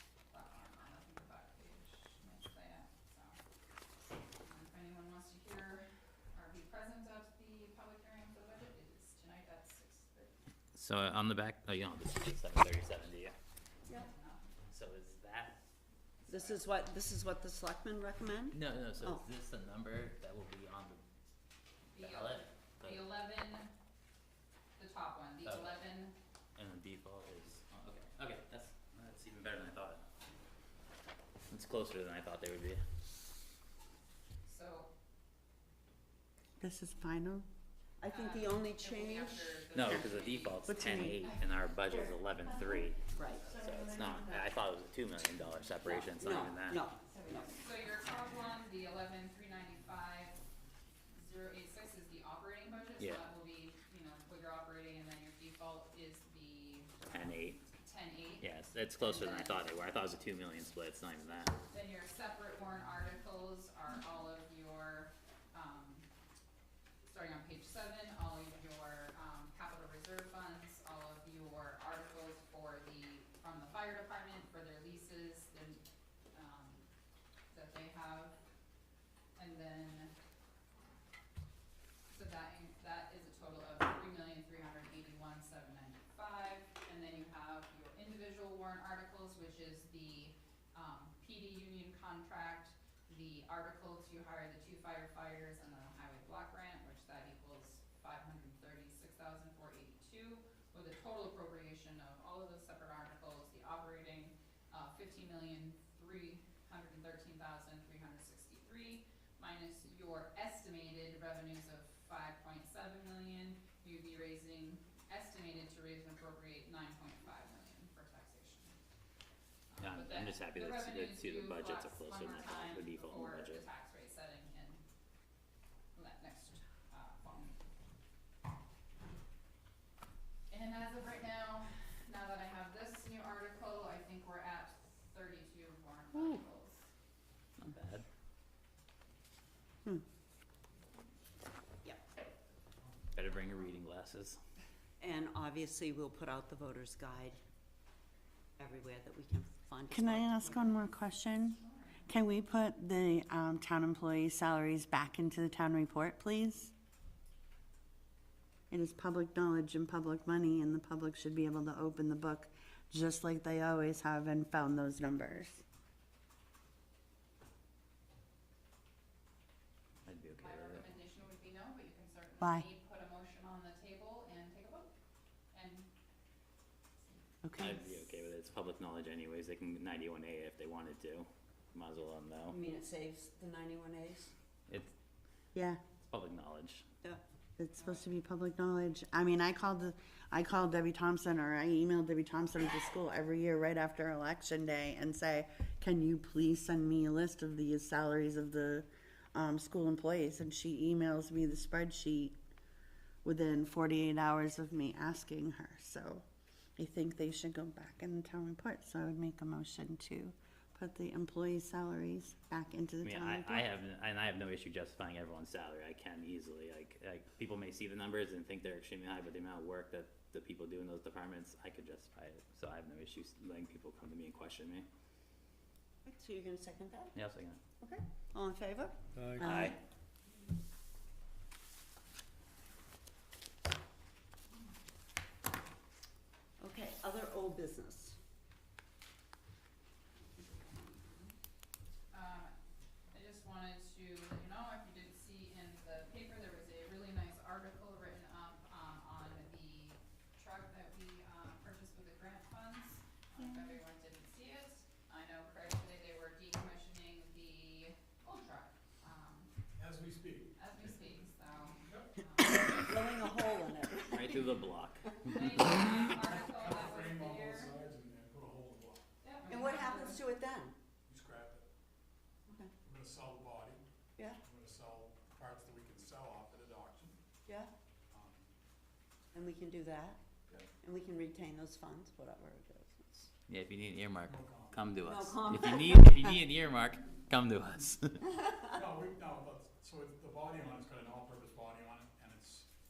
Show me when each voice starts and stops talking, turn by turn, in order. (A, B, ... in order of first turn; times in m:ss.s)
0:00.3-0:03.4 A
0:04.4-0:10.4 A
0:10.7-0:13.3 B
0:13.9-0:14.5 A
0:14.7-0:15.6 B
0:16.2-0:16.7 A
0:16.3-0:19.2 C
0:18.5-0:21.0 B
0:22.0-0:23.7 A
0:22.0-0:23.0 B
0:24.8-0:26.1 A
0:25.4-0:25.7 B
0:26.6-0:30.0 B
0:31.5-0:32.8 B
0:34.4-0:34.9 A
0:36.6-0:37.4 D
0:38.0-0:39.6 C
0:38.1-0:40.7 A
0:39.7-0:46.8 B
0:40.7-0:41.3 D
0:41.9-0:44.5 D
0:43.1-0:43.5 C
0:45.8-0:47.6 C
0:47.3-0:50.4 A
0:51.1-0:58.5 A
0:57.1-0:57.6 B
0:58.4-1:01.6 B
0:59.0-0:59.6 A
1:01.7-1:06.1 A
1:07.0-1:15.8 A
1:16.3-1:16.8 A
1:17.5-1:18.4 A
1:19.4-1:20.1 A
1:22.1-1:58.7 A
1:59.7-2:04.8 A
1:59.8-2:03.6 B
2:05.9-2:07.6 A
2:10.5-2:16.8 A
2:17.6-2:18.0 B
2:23.1-2:24.4 B
2:25.0-2:27.4 C
2:28.6-2:30.6 C
2:29.9-2:36.7 D
2:31.6-2:32.1 A
2:38.7-2:45.6 D
2:50.0-2:50.8 B
2:50.4-2:54.9 A
2:52.4-2:52.6 D
2:55.5-2:55.9 A
2:57.4-2:57.8 D
2:57.6-3:02.6 B
3:02.5-3:04.3 C
3:05.5-3:05.8 D
3:06.0-3:06.8 B
3:07.6-3:22.4 D
3:23.2-3:26.2 D
3:26.8-3:33.6 D
3:33.0-3:44.8 B
3:46.0-3:47.1 C
3:47.1-3:47.6 B
3:47.8-3:49.7 C
3:49.4-3:49.8 B
3:56.6-3:58.2 C
4:00.4-4:01.3 C
4:02.1-4:02.5 A
4:03.1-4:19.5 A
4:13.4-4:13.7 D
4:19.8-4:20.6 E
4:20.6-4:22.9 A
4:22.4-4:24.6 C
4:24.1-4:25.8 B
4:25.2-4:27.7 A
4:26.3-4:29.0 E
4:29.2-4:30.2 A
4:29.5-4:30.7 C
4:31.1-4:31.6 E
4:32.8-4:33.8 E
4:34.4-4:37.1 E
4:37.4-4:37.7 C
4:38.1-4:38.4 E
4:39.3-4:40.2 C
4:40.8-4:43.3 C
4:43.5-4:48.3 B
4:44.2-4:44.9 E
4:45.0-4:46.2 C
4:48.7-4:52.6 E